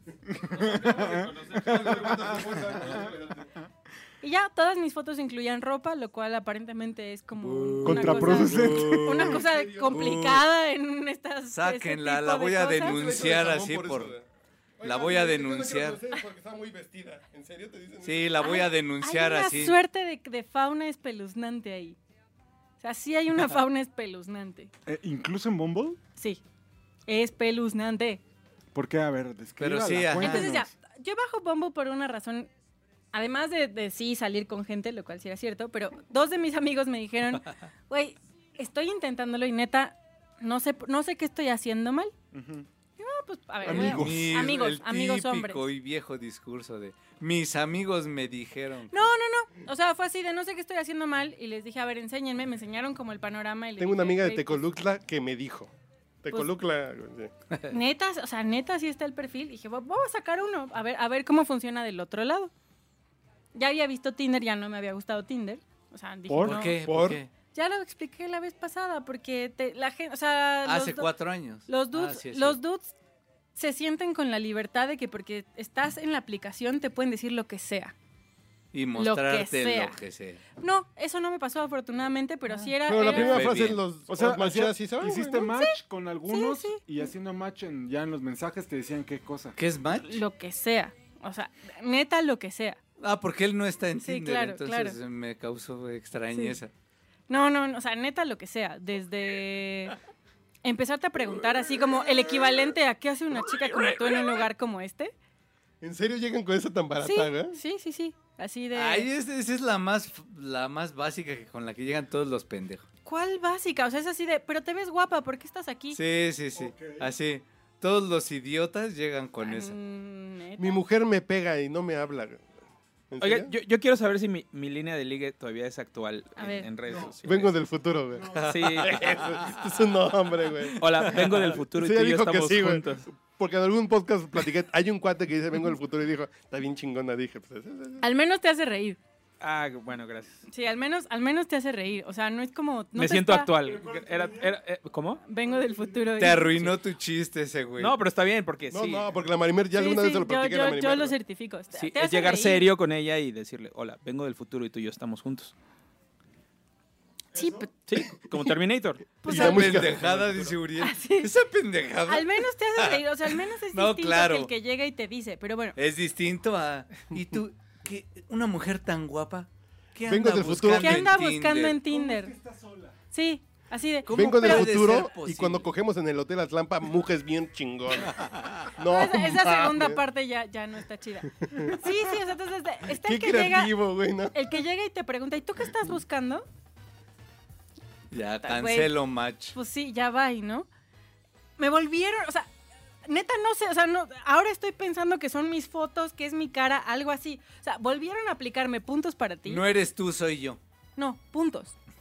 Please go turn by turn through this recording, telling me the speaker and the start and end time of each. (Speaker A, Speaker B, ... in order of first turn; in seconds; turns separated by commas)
Speaker A: 0.3-3.1, Speaker B: 0.6-2.2, Speaker C: 1.0-3.5, Speaker D: 4.2-12.9, Speaker E: 7.5-10.4, Speaker A: 7.8-9.4, Speaker C: 8.6-10.1, Speaker E: 11.5-14.1, Speaker C: 12.8-14.2, Speaker C: 14.8-18.4, Speaker E: 14.8-16.0, Speaker E: 18.0-19.8, Speaker D: 18.4-22.0, Speaker D: 22.8-24.7, Speaker A: 24.9-26.0, Speaker D: 26.2-26.4, Speaker D: 27.1-28.2, Speaker A: 28.7-30.7, Speaker E: 29.6-30.6, Speaker D: 30.2-32.5, Speaker D: 33.1-42.1, Speaker A: 42.3-42.7, Speaker D: 43.0-45.6, Speaker C: 43.6-44.6, Speaker E: 43.7-49.0, Speaker D: 48.9-54.7, Speaker C: 53.8-55.7, Speaker C: 56.2-57.3, Speaker D: 57.7-62.5, Speaker D: 63.5-66.8, Speaker A: 66.3-66.6, Speaker E: 66.4-67.3, Speaker C: 66.8-67.2, Speaker D: 67.5-71.1, Speaker E: 70.7-72.6, Speaker D: 71.7-73.0, Speaker D: 73.5-77.9, Speaker E: 78.7-80.4, Speaker D: 79.0-80.0, Speaker D: 80.6-83.5, Speaker C: 82.9-85.5, Speaker E: 83.0-83.8, Speaker A: 84.1-89.6, Speaker D: 85.4-85.8, Speaker D: 86.3-86.8, Speaker E: 89.6-90.2, Speaker D: 90.0-92.8, Speaker E: 93.0-96.7, Speaker D: 94.0-95.0, Speaker D: 97.3-100.0, Speaker D: 100.6-105.1, Speaker C: 105.8-107.6, Speaker D: 107.0-109.1, Speaker E: 108.7-112.9, Speaker D: 113.0-116.0, Speaker E: 115.9-119.8, Speaker A: 116.5-117.1, Speaker D: 119.4-120.8, Speaker C: 120.6-122.4, Speaker C: 123.1-123.5, Speaker B: 123.2-127.5, Speaker D: 126.4-126.7, Speaker A: 126.9-127.2, Speaker C: 127.2-138.0, Speaker A: 128.1-128.5, Speaker E: 128.4-129.5, Speaker B: 128.5-129.0, Speaker B: 130.8-133.1, Speaker D: 138.0-139.0, Speaker B: 139.4-140.4, Speaker D: 140.5-143.5, Speaker B: 142.9-145.2, Speaker A: 143.6-144.6, Speaker D: 145.3-146.5, Speaker A: 145.4-146.3, Speaker E: 146.2-148.0, Speaker B: 147.8-149.1, Speaker C: 148.7-151.2, Speaker D: 149.7-152.7, Speaker B: 151.7-155.5, Speaker A: 157.3-157.7, Speaker D: 157.3-157.7, Speaker B: 157.9-159.2, Speaker D: 159.2-159.7, Speaker C: 159.2-160.6, Speaker E: 159.3-163.0, Speaker D: 160.8-161.3, Speaker D: 162.1-165.8, Speaker E: 163.7-164.5, Speaker E: 165.8-171.8, Speaker C: 170.1-171.1, Speaker D: 170.8-172.3, Speaker A: 171.8-173.0, Speaker D: 173.1-174.8, Speaker E: 174.1-175.7, Speaker C: 174.1-180.0, Speaker E: 178.2-178.6, Speaker D: 178.8-183.8, Speaker C: 181.4-181.8, Speaker C: 182.9-184.6, Speaker D: 184.3-186.5, Speaker E: 188.1-189.6, Speaker D: 188.4-188.9, Speaker D: 189.5-190.7, Speaker D: 191.6-192.5, Speaker D: 193.1-199.6, Speaker E: 199.5-200.6, Speaker D: 201.0-201.8